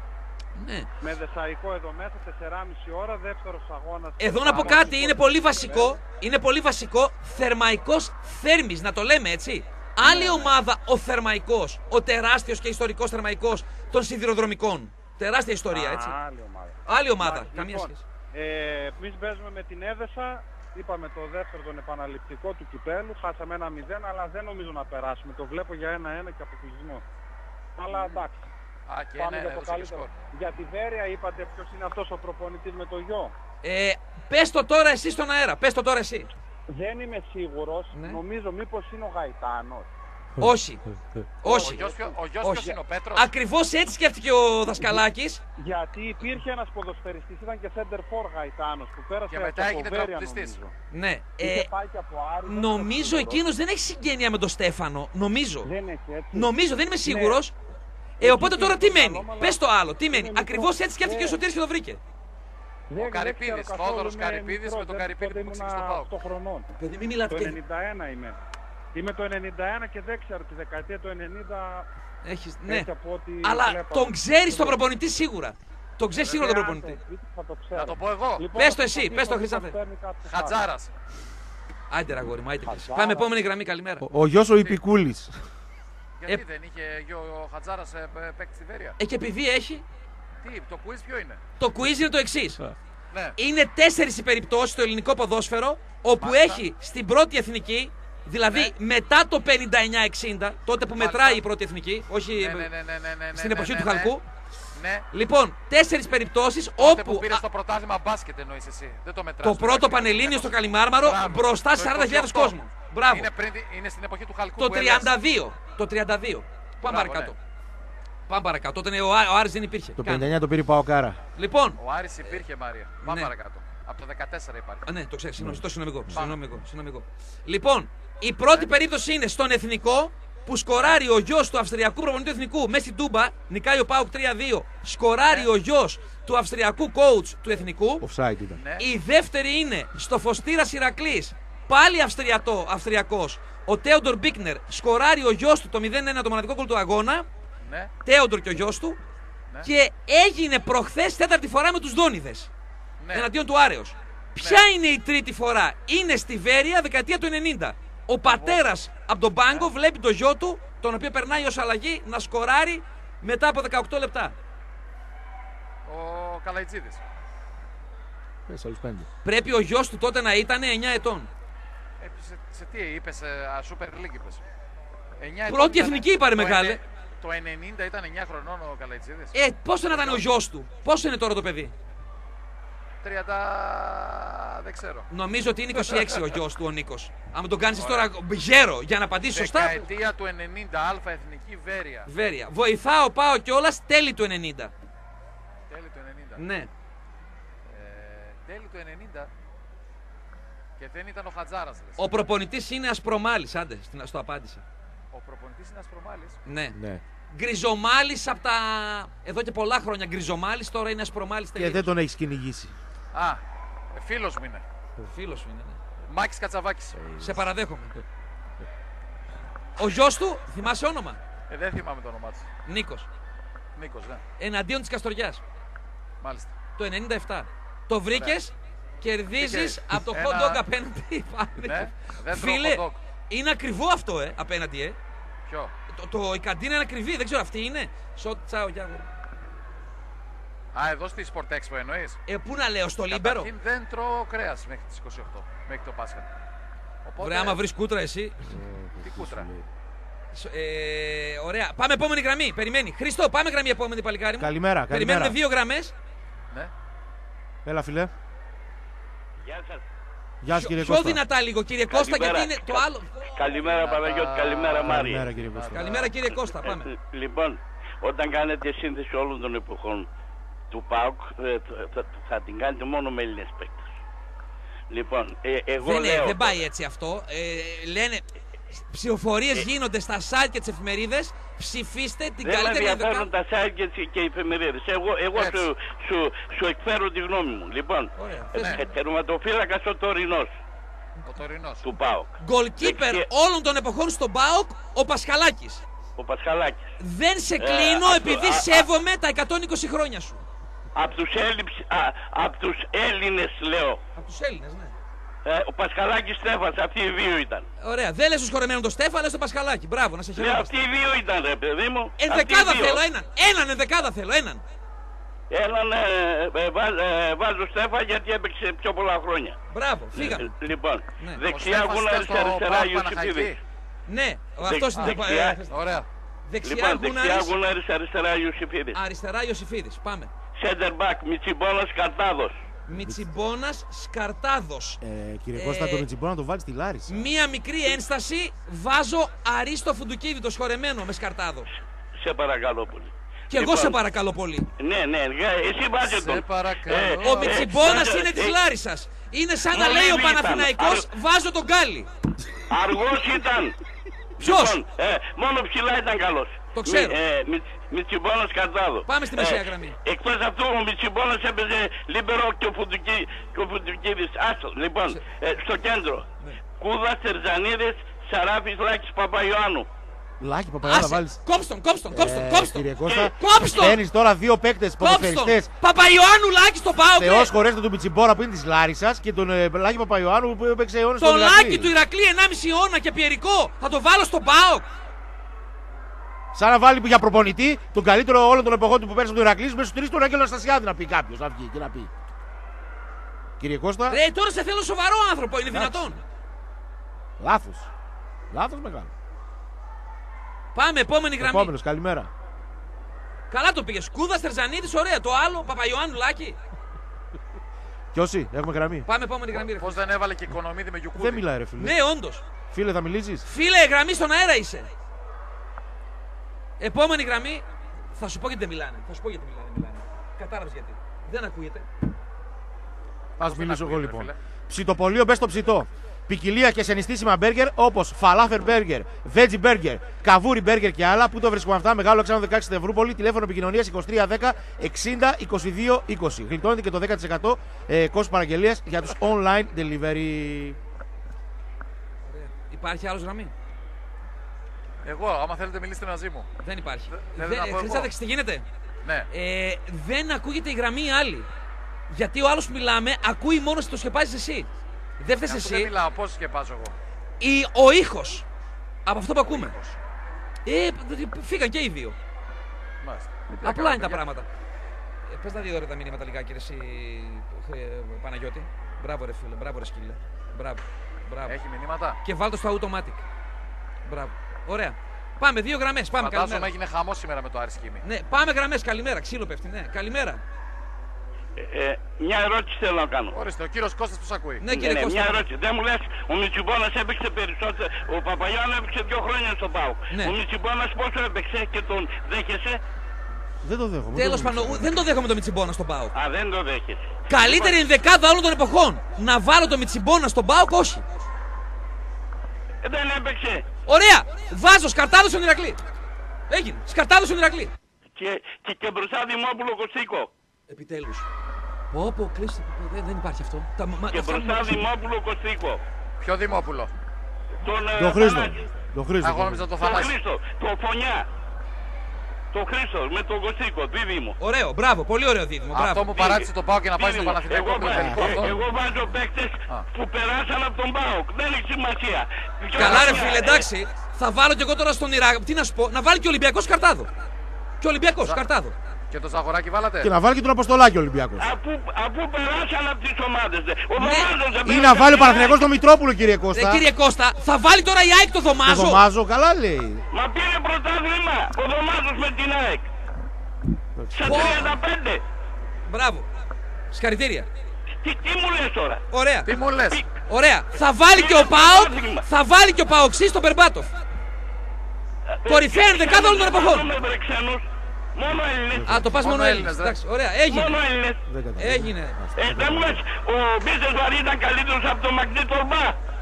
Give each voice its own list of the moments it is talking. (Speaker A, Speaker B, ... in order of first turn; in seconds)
Speaker A: 0.6-0.9, 4.2-16.2, 16.9-18.0, 33.6-36.3, 37.9-38.2, 40.4-40.9, 41.4-41.9, 42.4-45.4, 50.9-51.7, 52.5-55.7, 56.3-57.5, 58.2-62.0, 66.8-67.6, 72.2-72.9, 73.4-77.0, 78.5-79.8, 81.9-84.1, 89.0-89.8, 91.6-92.7, 93.4-102.7, 103.3-104.2, 105.1-107.4, 109.4-113.3, 114.6-117.4, 118.3-120.4, 121.4-122.4, 123.0-123.3, 124.9-138.1, 138.8-147.3, 148.0-149.0, 149.6-152.5, 153.1-164.3, 169.2-171.3, 175.5-176.8, 179.3-181.7, 185.1-189.8, 192.1-194.7, 196.4-196.7, 202.0-204.7, 206.5-206.8, 207.3-211.9, 215.1-215.8, 217.2-217.9, 219.8-221.2, 222.7-223.1, 224.4-225.4, 226.8-235.0, 235.9-239.1, 242.3-243.5, 247.2-248.5, 250.3-255.9, 260.5-263.4, 265.7-266.9, 275.8-283.3, 288.2-288.9, 292.4-295.8, 297.0-300.4, 304.2-305.0, 307.8-310.8, 312.2-314.6, 319.7-320.5, 324.1-325.8, 326.5-327.5, 328.9-330.3, 332.9-335.0, 335.6-336.1, 337.1-341.7, 343.5-344.7, 347.2-352.1, 354.4-354.8, 356.7-357.2, 359.1-360.0, 370.8-374.0, 375.0-377.5, 381.2-384.9, 394.1-396.2, 400.7-401.7, 403.5-406.6, 409.1-410.0, 411.8-412.4, 413.4-414.9, 416.8-417.6, 418.1-421.9, 442.3-443.5, 446.6-448.6, 449.3-451.5, 452.1-454.7, 455.2-455.9, 457.4-458.5, 459.1-459.8, 460.7-462.1, 463.6-464.5, 465.3-471.6, 472.2-473.2, 474.1-476.7, 478.0-480.4, 484.6-485.5, 494.1-496.1, 497.3-501.1, 503.9-505.8, 506.5-507.7, 510.7-511.3, 511.9-514.9, 524.4-526.2, 532.8-537.1, 537.8-538.7, 544.0-544.3, 546.5-549.0, 554.2-554.8, 555.9-556.3, 556.9-557.5, 559.1-559.5, 560.3-563.9, 565.5-566.9, 568.9-570.8, 571.6-572.2
Speaker B: 1.0-6.0, 10.0-10.5, 15.7-27.0, 27.8-28.5, 29.2-33.3, 36.7-39.9, 41.5-42.2, 45.6-50.7, 51.4-53.5, 55.6-56.5, 57.0-57.5, 58.2-61.4, 62.9-66.7, 67.3-68.4, 68.9-71.9, 72.7-74.8, 76.3-80.7, 82.7-83.3
Speaker C: 28.9-30.1, 41.5-43.3, 49.3-50.6, 62.9-66.1, 76.2-76.5, 77.7-78.5, 80.3-80.9, 86.2-89.0, 90.4-91.4, 96.2-96.7, 101.0-101.4, 102.4-104.2, 104.8-105.0, 106.8-115.1, 116.8-117.4, 121.8-124.9, 126.1-126.4, 138.6-138.9, 147.7-147.9, 153.0-153.3, 154.4-154.6, 158.2-158.7, 165.9-167.0, 172.0-174.4, 175.2-179.3, 179.9-180.3, 183.0-185.1, 185.9-186.2, 187.7-188.1, 189.3-192.1, 195.7-196.4, 197.7-199.3, 200.8-202.1, 205.1-206.4, 213.1-213.4, 213.9-214.7, 216.1-217.0, 221.5-222.5, 223.8-224.2, 226.2-226.6, 228.1-228.4, 229.4-230.6, 231.6-233.0, 235.5-235.7, 240.7-242.2, 243.1-246.3, 247.0-247.6, 249.0-249.5, 263.6-266.1, 285.4-285.6, 288.6-288.8, 291.2-291.9, 321.5-323.6, 325.7-326.1, 346.0-348.2, 409.7-411.4, 423.4-424.3, 445.0-446.5, 447.1-448.1, 455.5-456.9, 459.5-460.0, 463.0-464.2, 471.5-472.2, 476.2-478.0, 483.3-484.6, 497.5-497.8, 516.2-516.9, 519.2-520.1, 525.7-528.7, 532.8-533.3, 539.1-540.1, 559.5-560.0, 569.1-570.0
Speaker D: 84.0-85.3, 120.0-121.2, 125.4-126.1, 138.0-138.6, 168.5-169.1, 206.7-207.0, 211.6-212.7, 217.0-217.4, 248.5-249.7, 254.4-255.4, 257.6-258.1, 260.4-261.2, 264.9-266.1, 332.9-333.3, 335.0-337.3, 370.4-371.4, 372.1-375.7, 377.1-381.9, 386.5-392.1, 393.6-394.2, 395.7-396.2, 397.4-397.9, 398.5-399.1, 401.4-402.3, 408.1-409.1, 411.1-412.0, 412.7-413.4, 423.4-440.8, 493.6-495.0, 518.0-519.7, 527.8-528.7, 540.0-541.5, 544.6-546.9, 548.6-550.0, 568.7-569.1, 571.3-573.0
Speaker E: 259.4-259.8, 261.9-265.3, 266.7-270.1, 270.7-273.9, 274.9-276.6, 282.4-290.5, 291.8-293.2, 296.2-296.9, 297.6-298.9, 300.9-304.0, 305.4-307.7, 310.4-313.0, 315.5-319.6, 320.1-323.6, 324.6-325.6, 326.6-329.0, 330.6-332.6, 342.2-344.0, 344.8-348.6, 349.7-351.1, 352.7-353.8, 354.4-366.3, 366.8-369.9, 481.6-483.4, 484.7-492.8, 496.1-497.1, 502.8-503.6, 508.2-510.3, 514.1-515.8, 517.6-518.6, 519.8-521.3, 522.5-524.4, 526.2-533.7, 541.4-545.6, 550.1-552.9, 554.1-555.2, 558.0-559.0, 561.1-562.2, 565.4-567.6, 568.1-569.0, 570.5-571.2, 572.4-576.0